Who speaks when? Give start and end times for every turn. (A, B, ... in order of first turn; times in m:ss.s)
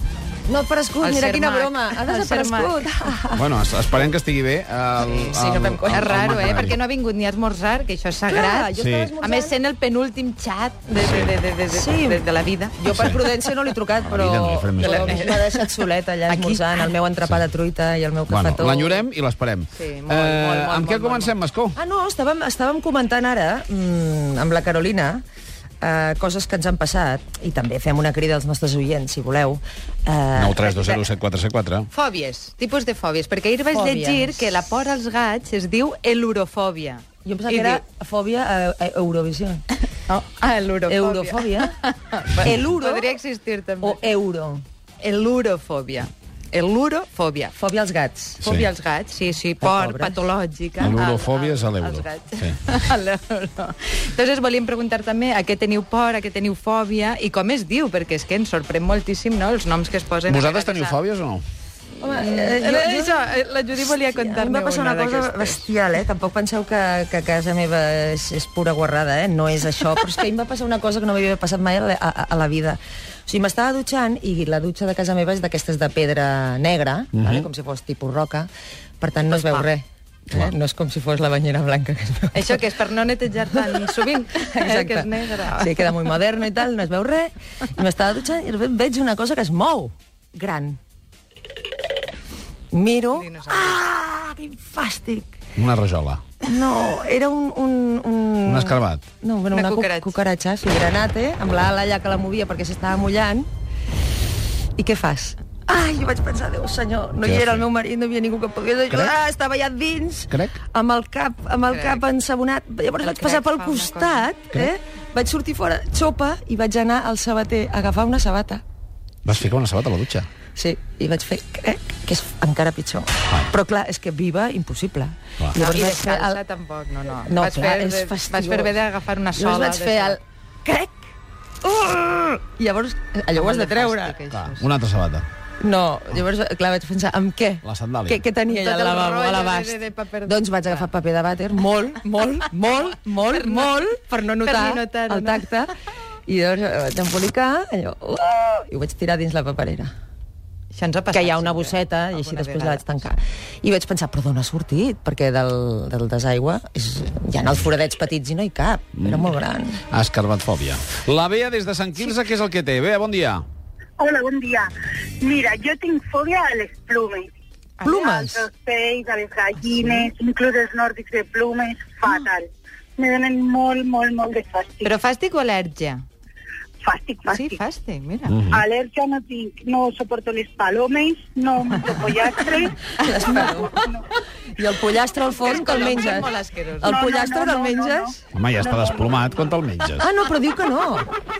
0:00.5-0:03.5 A
0:01.0-0:03.1 B
0:03.4-0:06.8 C
0:05.0-0:12.8 B
0:08.3-0:09.6 A
0:08.8-0:09.1 C
0:11.0-0:11.3 C
0:11.7-0:12.2 A
0:12.8-0:19.1 A
0:12.9-0:13.2 C
0:14.1-0:15.3 C
0:14.8-0:16.8 B
0:18.3-0:21.8 C
0:19.7-0:21.4 B
0:21.8-0:25.2 A
0:25.8-0:31.1 A
0:30.4-0:31.9 C
0:31.9-0:37.8 B
0:33.7-0:34.4 A
0:37.2-0:39.6 A
0:40.1-0:44.0 B
0:40.9-0:41.8 A
0:42.4-0:43.2 A
0:43.8-0:44.6 A
0:45.0-0:47.6 B
0:47.6-0:48.4 A
0:48.4-0:48.7 C
0:48.4-1:01.0 B
0:49.6-0:50.2 A
0:50.8-0:52.6 C
1:00.3-1:01.4 C
1:02.0-1:05.7 B
1:02.0-1:03.2 A
1:04.1-1:18.5 A
1:17.1-1:17.5 C
1:19.0-1:22.6 A
1:19.3-1:19.7 B
1:22.3-1:26.0 B
1:24.5-1:30.8 A
1:32.7-1:35.3 A
1:33.1-1:33.8 B
1:35.6-1:36.2 C
1:36.4-1:43.5 A
1:38.5-1:39.0 C
1:39.5-1:40.1 B
1:44.8-1:58.6 A
1:47.2-1:47.6 C
1:50.3-1:50.6 C
1:51.7-1:52.0 B
1:53.0-1:54.3 B
1:59.2-2:00.3 C
2:00.6-2:06.4 A
2:05.6-2:10.2 B
2:07.2-2:08.8 A
2:09.4-2:11.0 A
2:11.6-2:14.2 A
2:13.4-2:14.7 B
2:14.3-2:15.3 C
2:15.6-2:25.7 A
2:17.6-2:18.2 C
2:18.5-2:20.9 B
2:23.2-2:23.8 B
2:24.4-2:25.5 B
2:26.3-2:29.9 A
2:30.7-2:32.9 B
2:31.1-2:39.8 A
2:39.0-2:39.3 C
2:39.9-2:43.4 C
2:44.0-2:47.3 D
2:47.8-2:48.1 B
2:47.8-2:48.5 A
2:48.1-2:54.9 D
2:49.6-2:50.1 B
2:54.8-2:56.0 B
2:56.8-2:57.6 D
2:57.3-2:58.4 B
2:58.3-2:58.6 C
2:58.5-3:04.0 D
3:03.0-3:03.7 A
3:03.0-3:03.8 B
3:04.6-3:08.2 A
3:05.4-3:07.1 B
3:06.9-3:09.2 D
3:08.3-3:10.1 C
3:10.0-3:11.1 A